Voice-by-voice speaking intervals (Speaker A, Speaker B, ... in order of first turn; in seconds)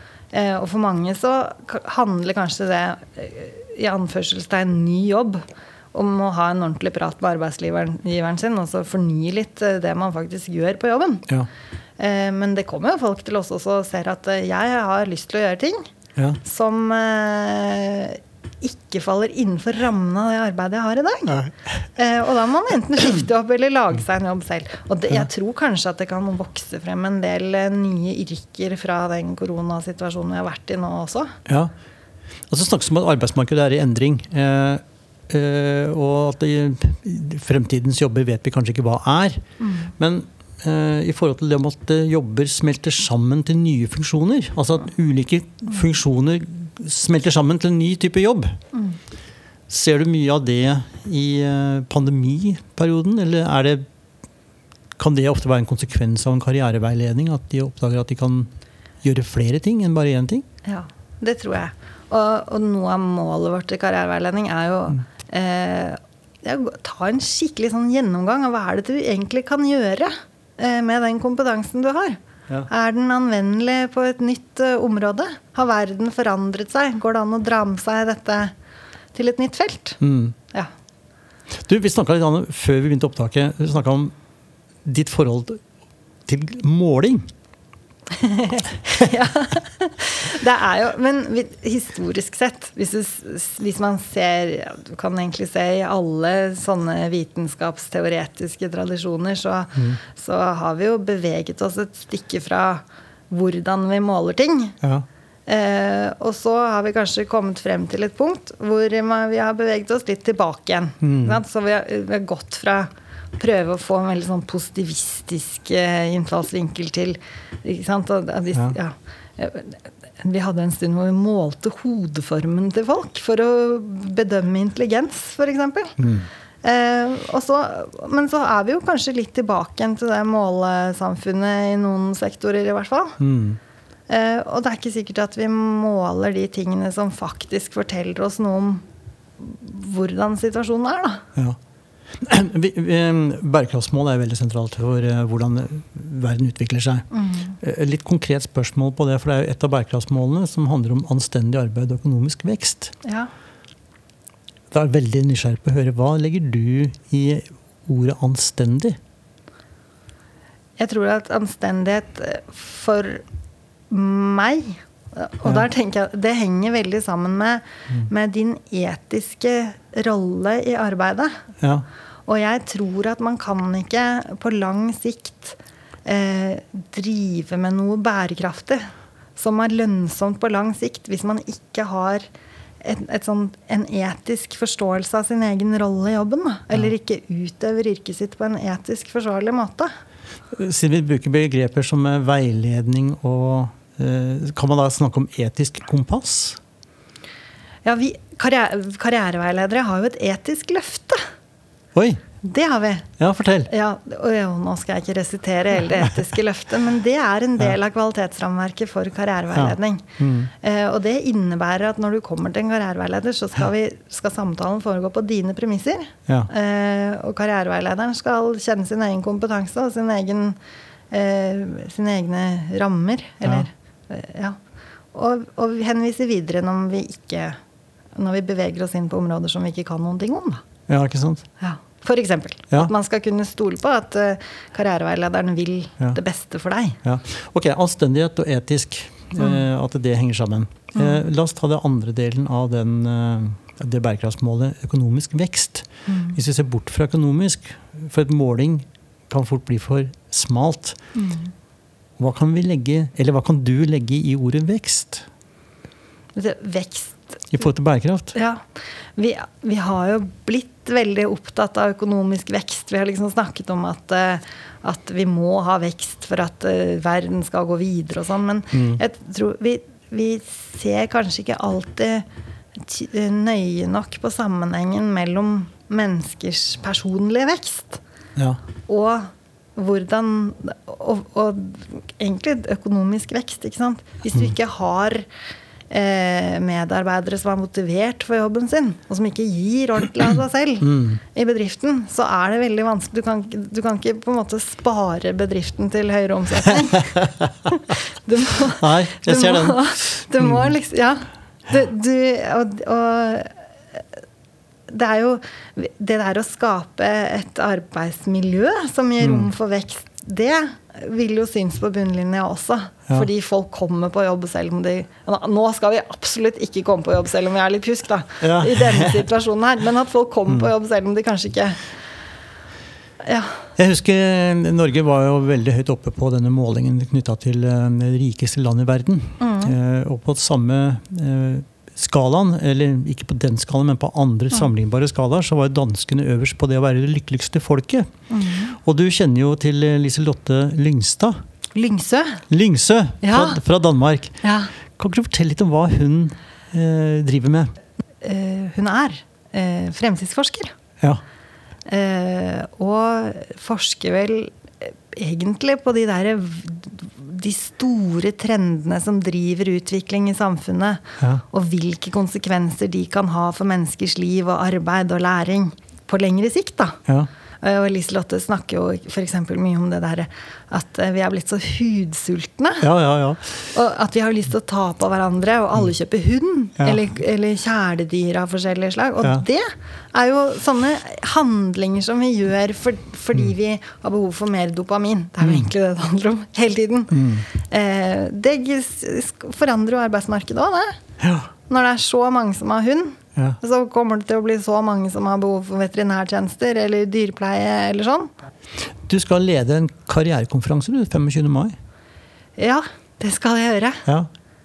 Speaker A: 0.3-11.3, 12.0-15.9, 16.4-21.4, 21.9-31.4, 39.6-39.9, 48.7-49.0, 60.6-78.5, 79.1-80.0, 88.1-104.8, 105.5-126.0, 126.6-133.2, 134.1-138.8, 139.4-141.2, 147.1-147.6, 153.0-153.3, 160.8-163.2, 163.9-171.4, 172.2-182.2, 182.8-189.9, 197.8-201.2, 202.4-203.1, 203.7-220.6, 221.1-224.6, 225.1-227.6, 228.2-230.6, 231.6-237.0, 240.9-241.2, 246.1-246.4, 251.1-251.5, 256.3-257.5, 258.3-272.2, 272.8-278.0, 278.9-285.3, 285.9-304.0, 304.9-321.8, 323.2-323.6, 329.4-329.7, 338.3-338.7, 341.7-342.4, 343.2-343.6, 344.4-344.7, 348.2-350.7, 351.9-367.0, 367.6-372.9, 373.7-391.0, 391.7-398.3, 402.6-404.1
Speaker B: 21.3-21.8, 31.4-31.7, 32.5-39.4, 40.0-48.6, 49.7-53.8, 55.0-58.5, 59.0-60.4, 80.0-80.3, 81.6-84.1, 84.8-85.6, 86.2-87.3, 111.0-111.4, 126.0-126.3, 133.2-133.6, 142.2-147.1, 147.6-152.9, 154.7-159.0, 171.6-171.8, 190.5-196.6, 201.9-202.2, 203.2-203.7, 209.5-210.5, 230.9-231.4, 237.0-251.0, 252.2-255.2, 257.5-258.3, 268.7-269.0, 290.8-291.2, 297.1-297.5, 298.6-300.7, 309.2-309.5, 318.4-319.3, 323.8-338.1, 338.7-341.4, 342.5-344.4, 345.0-347.7, 372.8-373.6, 387.1-387.4, 391.2-391.5, 398.8-401.7